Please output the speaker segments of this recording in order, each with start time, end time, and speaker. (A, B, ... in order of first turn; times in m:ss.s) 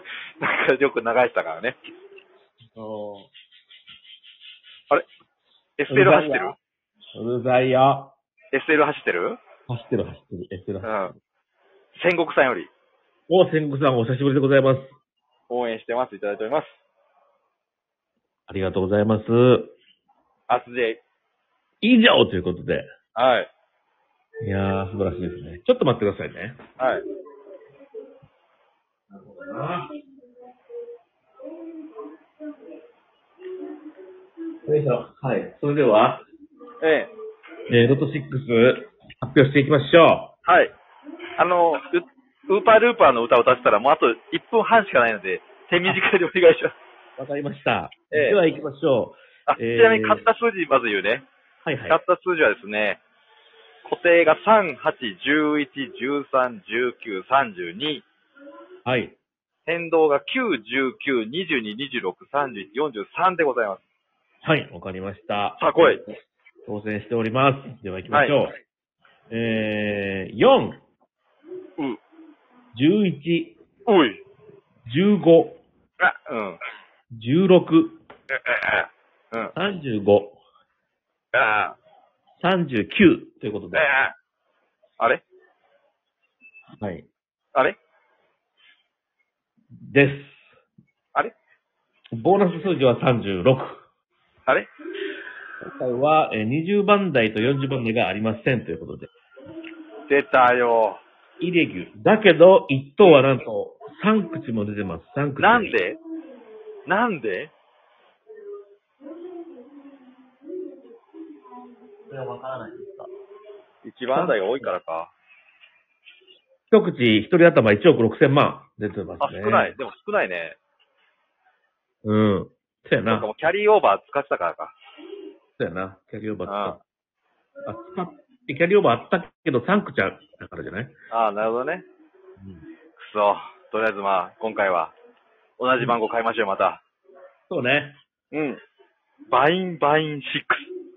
0:00.4-0:01.8 A
0:02.8-0:03.3 B
0:05.8-0:06.6 A
0:05.9-0:06.6 B
0:07.1-0:08.1 B
0:08.5-0:09.4 A
0:09.7-0:11.2 B
0:10.8-0:11.1 A
0:11.9-0:12.7 A
0:13.3-0:15.0 B
0:15.5-0:16.8 A
0:18.5-0:19.7 B
0:20.5-0:21.0 A
0:21.8-0:22.9 B
0:23.1-0:23.5 A
0:24.4-0:26.6 B
0:26.8-0:27.0 A
0:29.1-0:29.9 B
0:34.6-0:36.2 B
0:36.8-0:37.1 A
0:37.7-0:40.3 B
0:40.4-0:40.7 A
0:41.4-0:46.7 A
0:47.2-0:50.2 B
0:48.1-0:48.4 A
0:49.5-0:51.3 A
0:51.6-0:52.0 B
0:51.9-0:53.0 A
0:53.8-0:58.0 A
0:58.8-0:59.2 B
0:59.6-1:03.8 A
1:04.4-1:05.9 B
1:05.6-1:06.0 A
1:06.6-1:08.6 B
1:08.1-1:08.4 A
1:09.3-1:10.8 B
1:12.7-1:13.6 B
1:13.8-1:14.2 A
1:14.9-1:15.6 B
1:16.0-1:16.6 A
1:17.1-1:18.0 B
1:18.3-1:19.5 A
1:19.5-1:20.4 B
1:21.3-1:21.8 A
1:22.4-1:23.9 B
1:23.7-1:24.1 A
1:26.8-1:27.1 B
1:29.8-1:30.4 B
1:32.1-1:33.8 B
1:35.6-1:39.1 B
1:40.1-1:41.0 A
1:41.4-1:45.8 B
1:45.4-1:46.0 A
1:46.9-1:47.5 A
1:52.1-1:53.1 B
1:53.8-1:55.1 A
1:54.1-1:54.7 B
1:56.7-1:59.8 B
1:59.2-2:00.6 A
2:02.0-2:03.3 B
2:03.1-2:04.7 A
2:05.6-2:06.8 B
2:06.4-2:06.8 A
2:07.6-2:10.9 B
2:11.1-2:11.8 A
2:12.4-2:12.6 B
2:13.0-2:14.9 A
2:15.6-2:16.8 A
2:17.5-2:18.0 B
2:18.3-2:18.6 A
2:19.3-2:20.7 A